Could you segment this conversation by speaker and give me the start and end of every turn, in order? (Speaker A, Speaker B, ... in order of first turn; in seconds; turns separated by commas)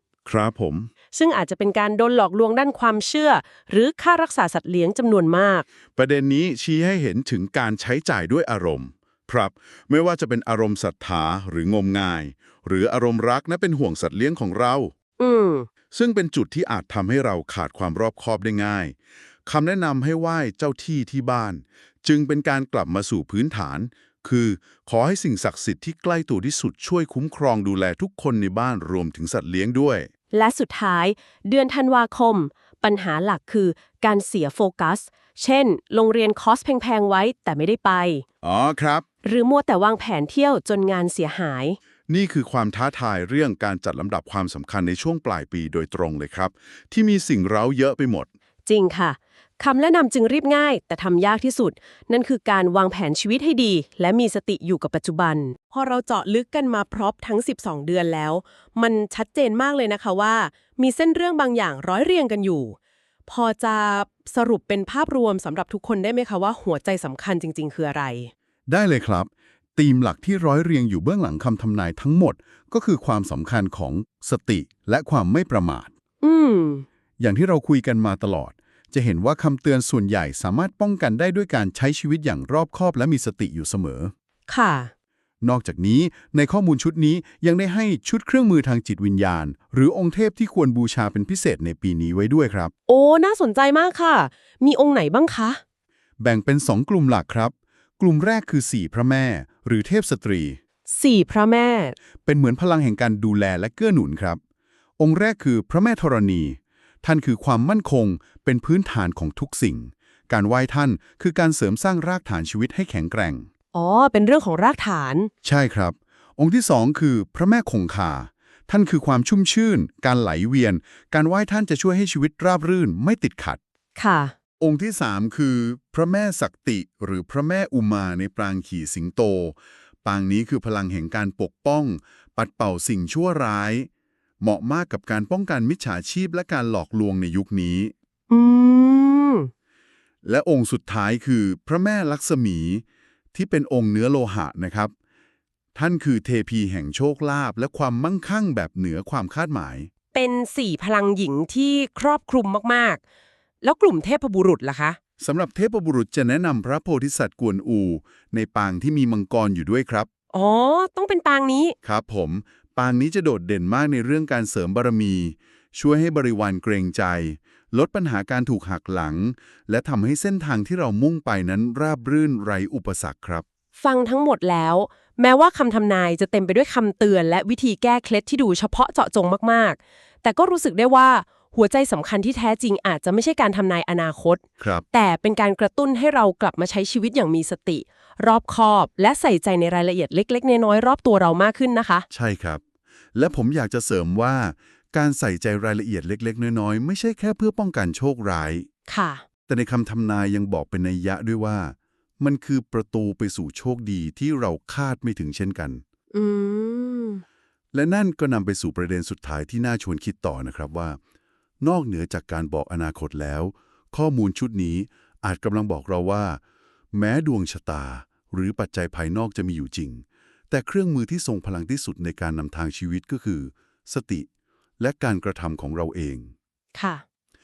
Speaker A: 0.2-0.9, Speaker B: 1.1-5.6, Speaker A: 5.9-14.9, Speaker B: 15.2-15.7, Speaker A: 15.9-18.9, Speaker A: 19.4-30.1, Speaker B: 30.3-38.2, Speaker A: 38.4-39.0, Speaker B: 39.2-41.8, Speaker A: 42.1-48.3, Speaker B: 48.6-62.8, Speaker B: 63.3-68.3, Speaker A: 68.7-75.9, Speaker B: 76.2-76.8, Speaker A: 77.2-84.1, Speaker B: 84.5-84.9, Speaker A: 85.4-92.7, Speaker B: 92.9-95.6, Speaker A: 96.2-100.6, Speaker B: 100.9-101.9, Speaker A: 102.2-104.4, Speaker A: 105.0-113.5, Speaker B: 113.7-115.3, Speaker A: 115.4-123.6, Speaker B: 124.0-124.3, Speaker A: 124.6-133.9, Speaker A: 134.4-137.9, Speaker B: 138.3-139.5, Speaker A: 140.2-144.9, Speaker A: 145.7-149.9, Speaker B: 150.1-153.0, Speaker B: 153.6-155.0, Speaker A: 155.2-160.1, Speaker B: 160.3-161.7, Speaker A: 161.8-173.4, Speaker B: 173.8-192.1, Speaker A: 184.6-184.8, Speaker A: 192.1-192.6, Speaker A: 193.1-198.7, Speaker B: 198.9-199.2, Speaker A: 199.5-205.8, Speaker B: 206.1-207.2, Speaker A: 207.7-211.0, Speaker A: 211.6-216.4, Speaker A: 216.9-224.3, Speaker A: 224.8-226.3, Speaker B: 226.7-227.0